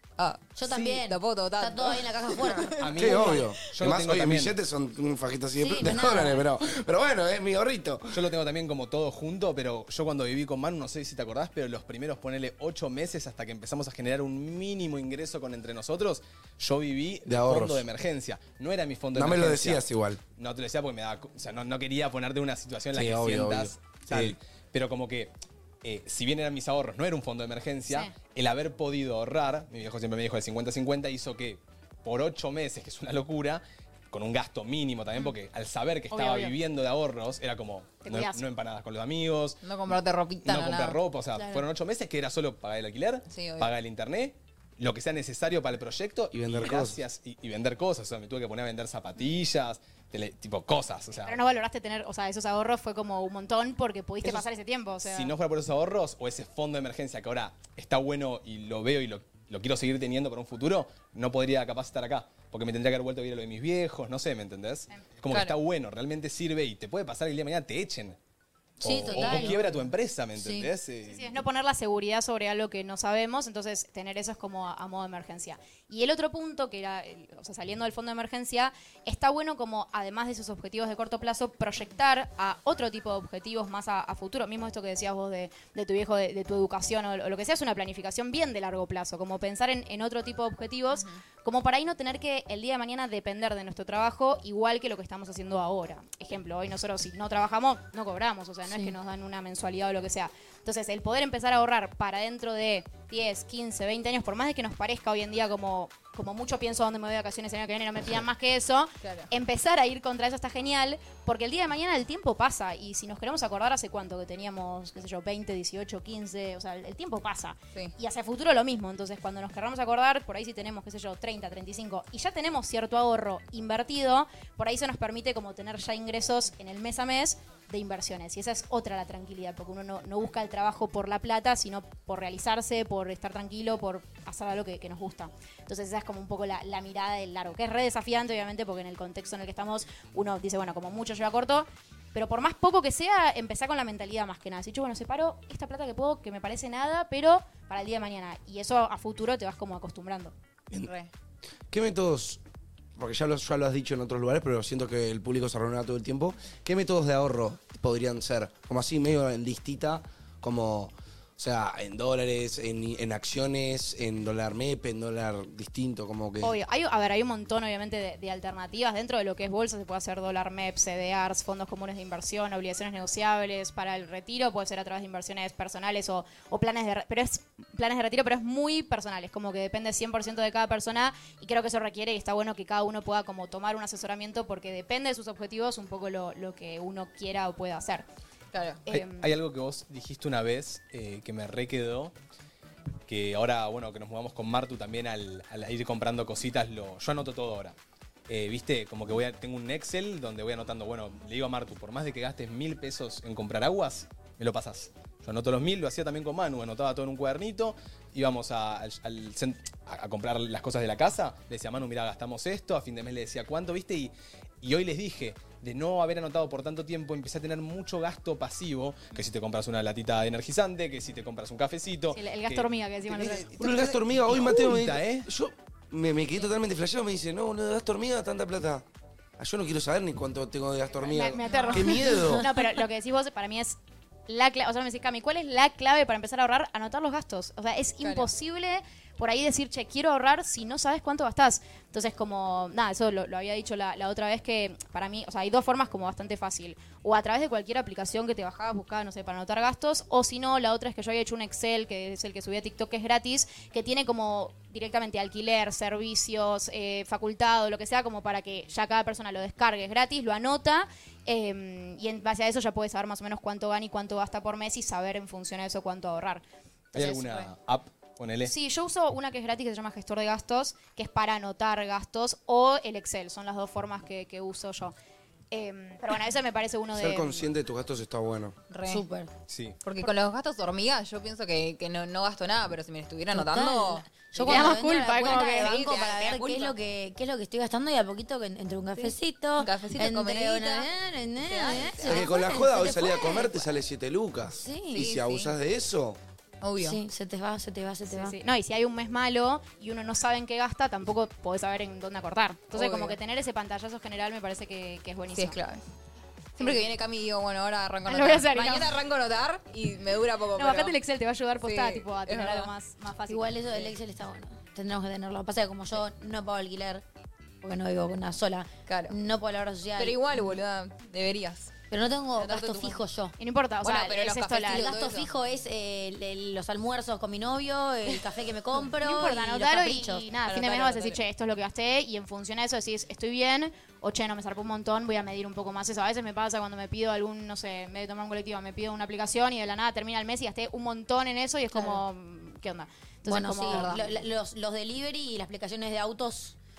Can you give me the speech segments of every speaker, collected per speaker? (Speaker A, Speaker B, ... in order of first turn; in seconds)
Speaker A: 0.2-3.5, 39.6-41.0, 43.3-43.7, 65.3-65.6, 69.1-69.7, 70.4-70.7, 90.9-91.2, 109.0-109.3, 150.8-151.1, 188.5-188.8, 231.4-231.8, 238.0-238.3, 266.9-267.5, 278.7-279.1, 279.8-286.7, 288.9-290.9, 291.4-292.3, 294.9-295.5, 296.6-297.0, 302.7-303.2, 305.3-305.8, 306.6-311.0, 311.6-312.7, 318.9-319.1, 319.9-321.7, 322.4-323.0, 323.8-325.3, 330.4-331.2, 341.7-342.0, 343.6-344.1
Speaker B: 0.6-2.8, 5.6-6.5, 68.8-69.6, 278.9-279.3, 283.3-293.6, 294.5-295.1, 296.8-298.4, 313.3-317.0, 317.6-320.5, 321.9-323.3, 324.7-330.3, 343.3-346.6
Speaker C: 2.8-4.6, 8.1-19.8, 20.4-39.6, 40.5-51.4, 55.0-68.2, 68.8-71.4, 188.9-192.1, 193.1-197.8, 198.3-225.3, 266.9-268.5, 279.5-279.8
Speaker D: 3.0-8.1, 17.3-17.8, 19.1-20.2, 22.9-24.4, 46.3-47.0, 151.7-152.4, 153.0-166.6, 223.6-228.8, 229.4-232.4, 276.9-278.6, 292.1-296.2
Speaker E: 27.9-28.1, 36.1-36.6, 38.0-38.4, 51.2-55.3, 71.1-150.3, 166.4-188.1, 188.9-189.3, 222.1-223.5, 231.0-233.8, 234.3-266.4, 268.4-274.9, 275.5-277.5, 284.4-285.7, 298.1-305.6, 306.6-306.9, 308.1-308.9, 310.6-313.5, 323.4-324.9, 329.0-344.0